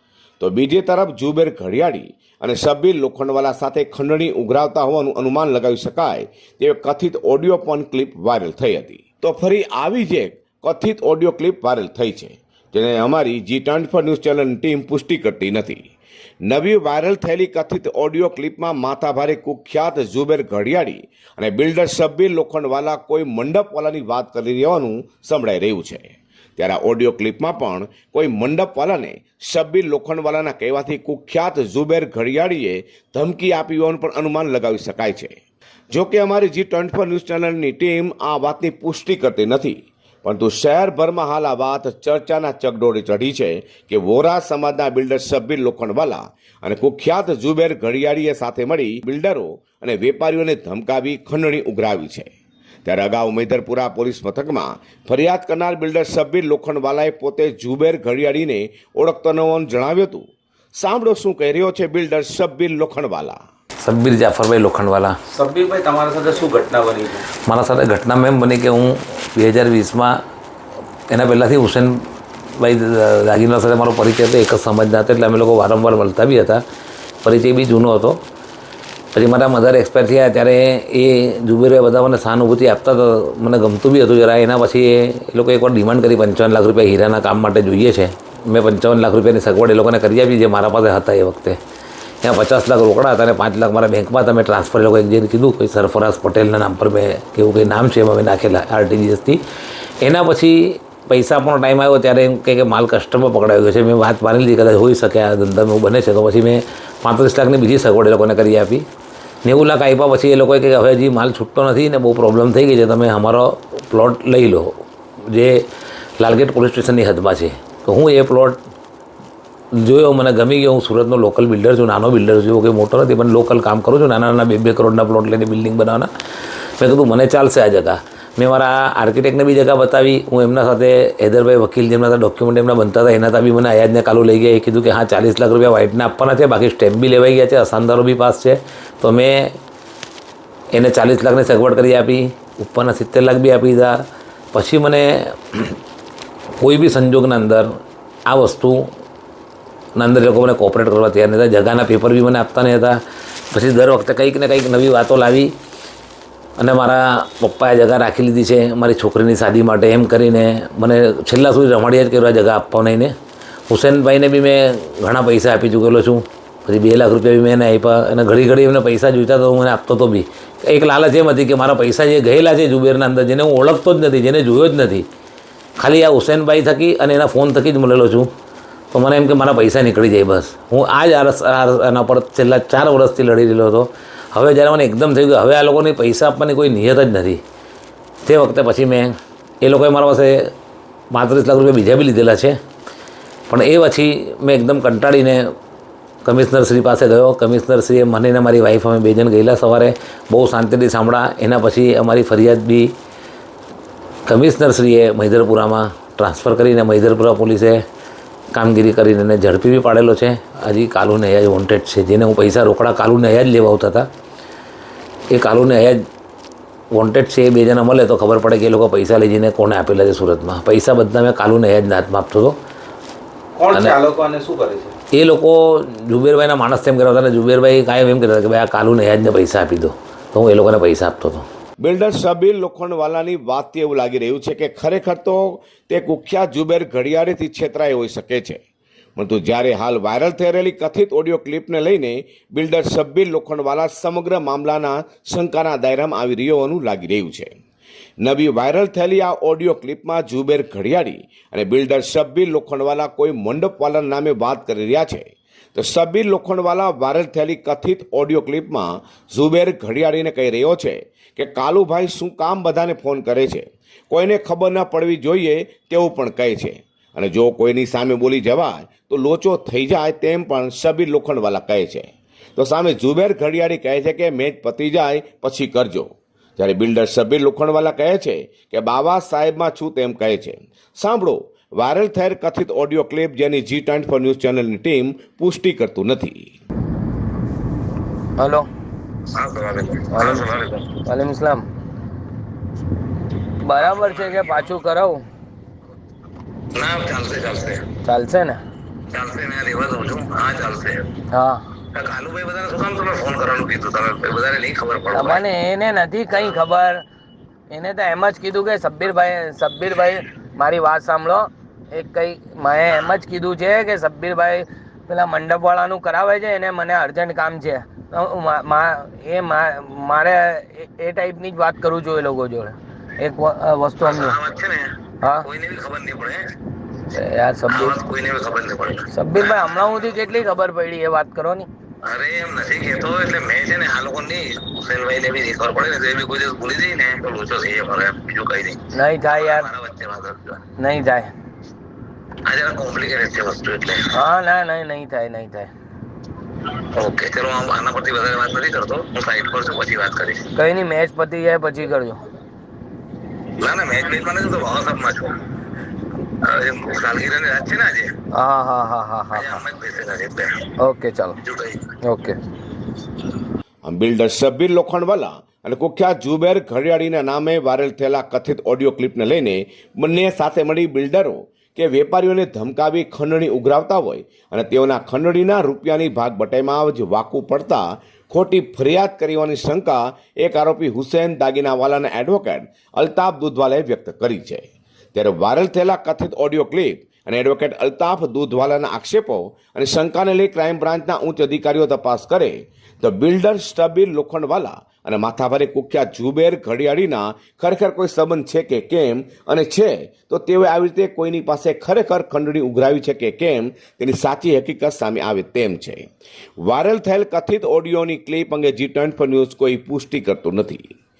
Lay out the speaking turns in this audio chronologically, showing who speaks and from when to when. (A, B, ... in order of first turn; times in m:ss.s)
0:00.4-0:15.8 A
0:16.5-0:35.4 A
0:35.9-0:52.3 A
0:52.8-1:00.2 A
1:00.8-1:03.4 A
1:03.8-1:05.2 B
1:05.3-1:07.3 C
1:07.4-1:10.2 B
1:11.1-1:12.0 B
1:12.6-1:16.6 B
1:17.2-1:18.2 B
1:19.1-1:31.6 B
1:32.2-1:39.4 B
1:40.0-1:48.8 B
1:49.4-1:54.7 B
1:55.3-1:55.7 B
1:56.2-1:58.6 B
1:59.8-2:06.1 B
2:06.8-2:19.6 B
2:20.7-2:24.0 B
2:24.5-2:25.8 B
2:26.6-2:27.7 B
2:28.3-2:28.8 B
2:30.0-2:33.0 B
2:33.5-2:35.5 B
2:36.6-2:43.1 B
2:43.7-2:55.1 B
2:55.8-2:58.3 B
2:58.9-3:07.4 B
3:08.2-3:10.5 B
3:11.1-3:12.6 B
3:13.5-3:15.4 B
3:16.2-3:22.9 B
3:24.3-3:27.8 B
3:28.5-3:34.1 B
3:35.3-3:36.0 B
3:36.9-3:42.6 B
3:43.6-3:45.0 C
3:43.7-3:44.0 B
3:45.1-3:51.5 B
3:51.8-3:58.6 A
3:59.2-4:07.5 A
4:08.2-4:46.5 A
4:48.4-4:48.7 D
4:49.4-4:51.0 E
4:50.1-4:50.5 D
4:51.0-4:51.7 D
4:53.6-4:55.2 D
4:53.8-4:54.7 E
4:56.8-4:57.8 E
4:58.0-4:58.6 D
4:59.1-5:01.1 E
5:01.3-5:01.7 D
5:01.9-5:05.4 E
5:05.1-5:07.0 D
5:07.7-5:24.4 D
5:24.0-5:24.9 E
5:25.2-5:25.5 D
5:25.4-5:26.4 E
5:27.1-5:28.0 D
5:27.7-5:30.2 E
5:29.1-5:31.7 D
5:32.0-5:40.6 E
5:38.9-5:39.7 D
5:40.8-5:41.3 D
5:42.4-5:44.1 E
5:44.1-5:45.7 D
5:46.9-5:50.5 E
5:50.6-5:52.2 D
5:53.6-5:55.4 E
5:56.4-5:58.1 E
5:58.3-5:59.6 D
5:59.3-6:00.5 E
6:00.8-6:01.4 D
6:01.4-6:01.9 E
6:02.1-6:02.4 D
6:03.8-6:46.1 A
6:46.6-6:50.9 A